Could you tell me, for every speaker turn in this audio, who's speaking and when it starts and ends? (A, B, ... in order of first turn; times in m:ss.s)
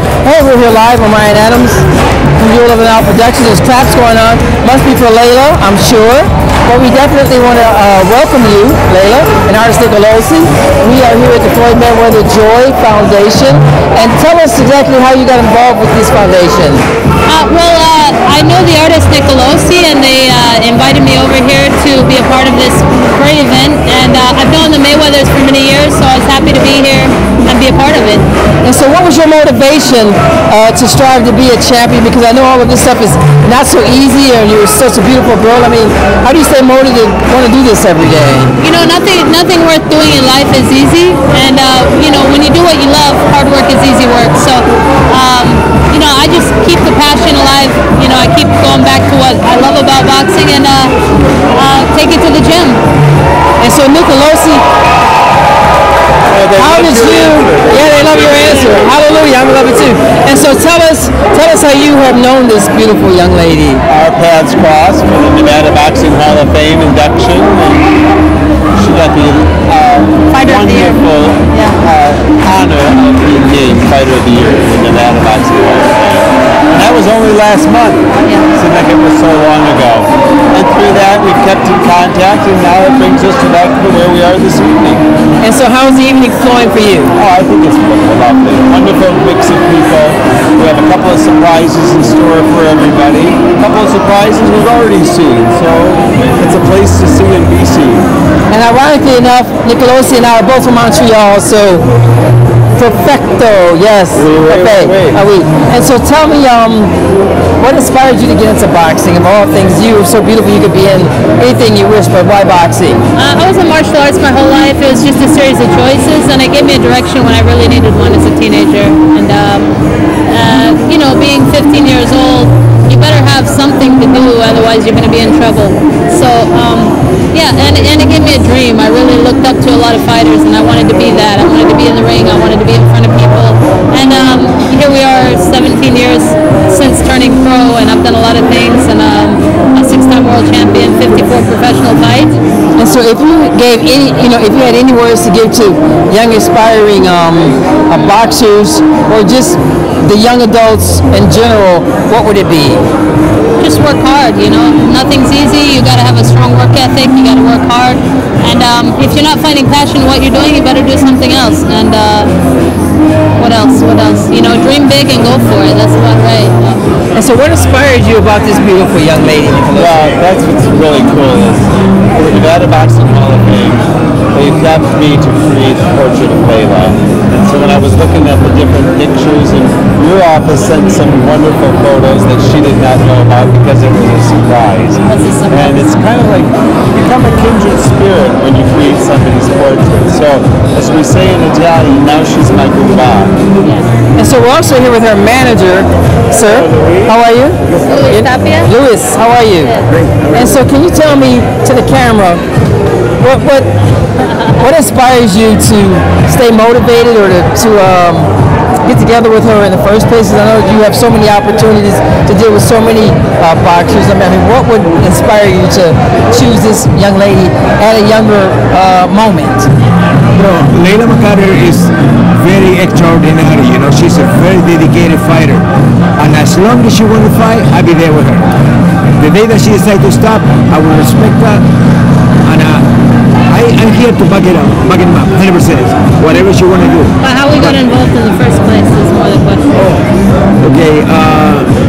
0:00.2-0:01.9 A
0:02.4-0:16.8 A
0:17.2-0:28.2 B
0:28.6-0:38.5 A
0:38.6-0:50.9 B
0:51.5-0:52.8 B
0:53.6-0:54.6 A
0:56.3-0:58.9 C
0:56.6-1:03.8 A
1:03.9-1:07.9 C
1:08.8-1:25.0 C
1:10.3-1:11.8 B
1:18.2-1:18.5 B
1:25.4-1:27.1 A
1:27.1-1:38.0 C
1:38.5-1:41.8 A
1:42.8-1:46.9 A
1:44.2-1:45.2 C
1:47.6-1:53.0 A
1:53.1-1:59.8 B
2:00.3-2:22.4 B
2:22.8-2:32.8 A
2:33.6-2:42.3 B
2:43.4-2:46.8 B
2:47.2-2:50.0 A
2:49.7-3:13.3 C
3:05.1-3:05.9 B
3:13.6-3:13.9 B
3:14.2-3:22.4 A
3:17.8-3:18.7 B
3:23.2-3:23.7 A
3:24.6-3:28.3 A
3:28.8-3:39.7 A
3:40.3-3:45.7 D
3:46.2-3:48.5 D
3:49.2-3:51.6 D
3:52.4-3:52.9 D
3:53.5-3:57.8 D
3:57.2-3:59.9 B
4:00.6-4:01.8 D